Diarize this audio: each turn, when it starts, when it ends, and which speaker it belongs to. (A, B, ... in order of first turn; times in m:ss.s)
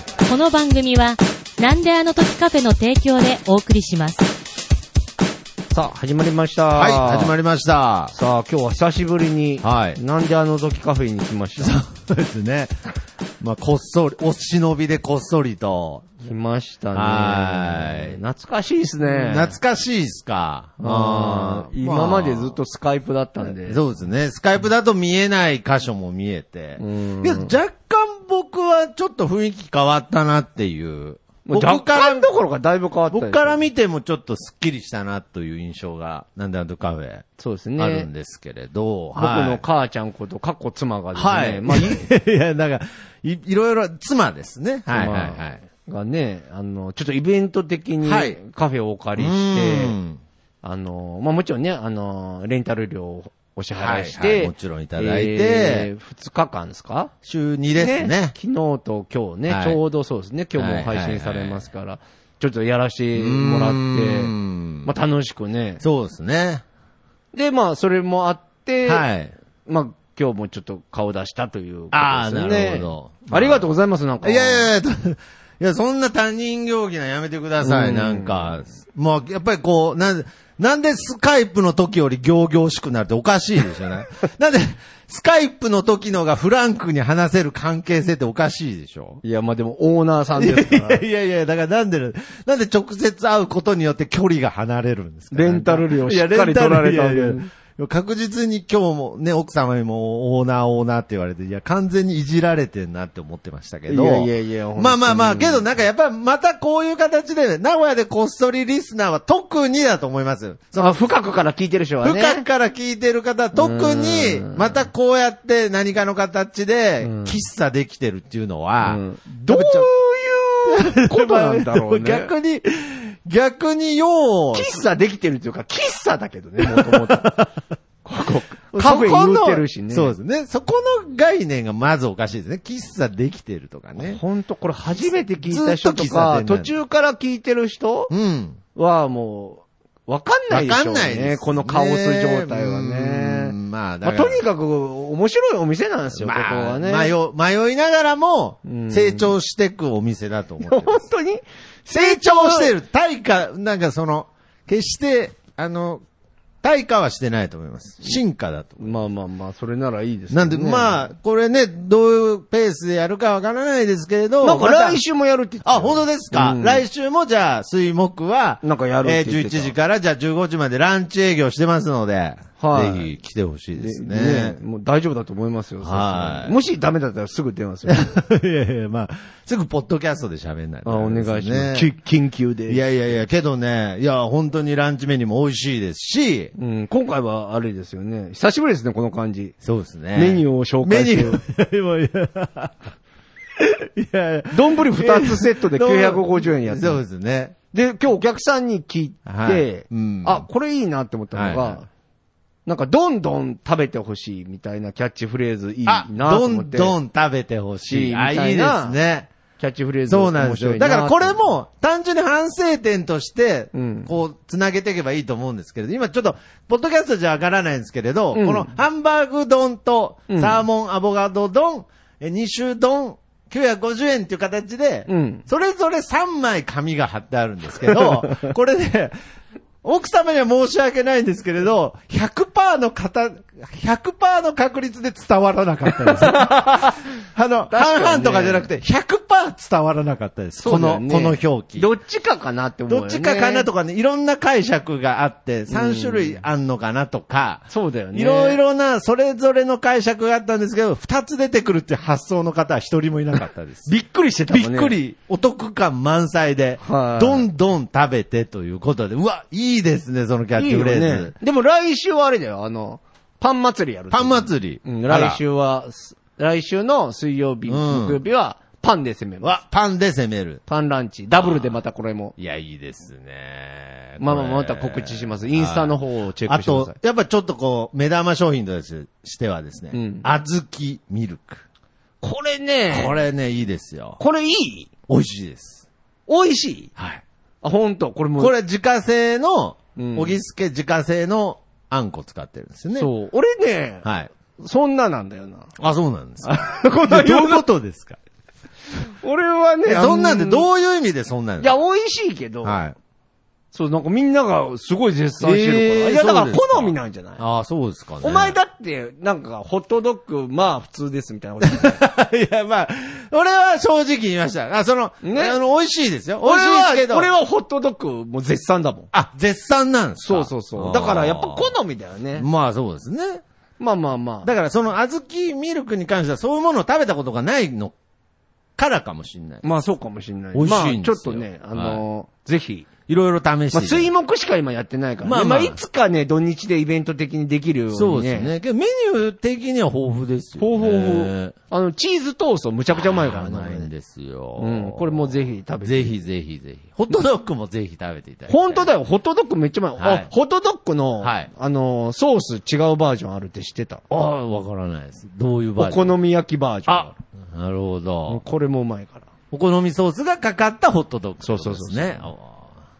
0:00.2-0:04.3 A
0:05.7-0:07.3 B
0:06.7-0:08.1 C
0:08.1-0:11.8 B
0:09.6-0:10.0 C
0:11.6-0:12.7 C
0:13.4-0:16.1 C
0:16.2-0:19.6 B
0:16.9-0:18.2 C
0:19.0-0:22.6 C
0:20.8-0:23.8 B
0:23.4-0:32.3 C
0:26.8-0:27.5 B
0:31.4-0:33.6 B
0:33.1-0:39.6 C
0:37.4-0:38.1 B
0:39.1-0:42.1 B
0:41.1-0:45.6 C
0:44.9-0:50.0 B
0:48.0-0:48.4 C
0:49.2-0:50.2 C
0:50.6-0:57.1 B
0:53.8-0:55.9 C
0:57.2-0:58.3 C
0:57.8-1:04.3 B
0:59.5-0:59.8 C
1:00.6-1:01.7 C
1:03.1-1:04.9 C
1:04.8-1:05.8 B
1:05.8-1:06.6 C
1:07.3-1:09.0 B
1:08.8-1:09.3 C
1:09.6-1:14.7 B
1:11.9-1:13.7 C
1:14.2-1:29.2 C
1:17.6-1:18.6 B
1:29.2-1:31.0 B
1:30.4-1:51.0 C
1:35.3-1:37.5 B
1:43.9-1:45.6 B
1:50.7-1:52.4 B
1:52.0-1:59.9 C
1:53.6-1:54.8 B
1:57.0-1:57.3 B
1:58.8-2:02.3 B
2:00.7-2:04.8 C
2:04.5-2:07.3 B
2:06.6-2:07.5 C
2:08.0-2:10.1 B
2:08.7-2:14.2 C
2:14.0-2:18.1 B
2:15.4-2:16.7 C
2:18.1-2:18.6 C
2:18.7-2:27.1 B
2:20.5-2:24.4 C
2:26.2-2:31.0 C
2:28.6-2:29.3 B
2:30.6-2:32.7 B
2:31.9-2:36.0 C
2:36.6-2:39.0 C
2:38.8-2:41.0 B
2:40.3-2:45.0 C
2:44.4-2:46.8 B
2:45.6-2:54.6 C
2:48.6-2:49.7 B
2:52.6-2:53.1 B
2:53.8-2:58.1 B
2:55.8-2:56.6 C
2:57.9-3:01.9 C
3:00.8-3:02.8 B
3:02.7-3:06.5 C
3:06.6-3:09.5 B
3:09.6-3:12.9 C
3:10.1-3:11.4 B
3:13.6-3:17.6 C
3:14.5-3:17.0 B
3:17.7-3:21.9 B
3:19.2-3:20.4 C
3:21.3-3:21.8 C
3:22.6-3:27.0 B
3:25.8-3:29.3 C
3:27.9-3:29.0 B
3:29.6-3:31.4 B
3:30.1-3:49.1 C
3:33.7-3:34.1 B
3:38.3-3:38.7 B
3:40.3-3:40.6 B
3:45.1-3:45.4 B
3:48.0-3:48.5 B
3:49.8-4:01.9 C
3:55.9-3:57.0 B
3:57.7-3:58.7 B
4:00.6-4:03.7 B
4:02.9-4:13.9 C
4:05.7-4:06.4 B
4:07.7-4:08.6 B
4:13.8-4:15.0 B
4:14.5-4:21.3 C
4:16.8-4:17.5 B
4:20.6-4:29.6 B
4:24.1-4:25.4 C
4:27.7-4:28.2 C
4:29.4-4:30.6 C
4:30.7-4:32.3 B
4:31.4-4:31.6 C
4:32.4-4:41.6 C
4:34.2-4:37.0 B
4:39.9-4:40.2 B
4:42.2-4:43.2 B
4:42.9-4:44.2 C
4:44.2-4:44.9 B
4:45.1-4:45.8 C
4:46.3-4:46.9 B
4:47.0-4:47.2 C
4:47.6-4:48.5 B
4:48.4-4:53.1 C
4:50.0-4:50.4 B
4:53.0-4:55.7 B
4:54.0-4:54.3 C
4:55.8-4:58.2 C
4:56.4-4:57.6 B
4:59.2-5:00.7 B
4:59.9-5:01.8 C
5:01.6-5:02.8 B
5:02.6-5:03.0 C
5:03.7-5:07.4 B
5:05.4-5:08.6 C
5:08.2-5:12.0 B
5:11.6-5:17.3 C
5:15.2-5:15.6 B
5:16.4-5:19.1 B
5:19.1-5:21.7 C
5:20.2-5:22.5 B
5:22.4-5:23.4 C
5:23.8-5:24.5 B
5:24.4-5:27.9 C
5:28.8-5:29.6 C
5:29.6-5:32.9 B
5:30.5-5:32.0 C
5:33.1-5:34.1 C
5:33.7-5:38.5 B
5:35.2-5:35.8 C
5:37.9-5:41.5 C
5:40.6-5:43.9 B
5:42.9-5:48.9 C
5:44.6-5:46.1 B
5:48.5-5:54.0 B
5:50.0-5:50.3 C
5:51.2-5:51.5 C
5:54.1-5:56.1 C
5:55.8-5:57.1 B
5:56.9-5:58.4 C
5:58.3-5:59.3 B
5:59.5-6:02.7 C
6:01.4-6:02.3 B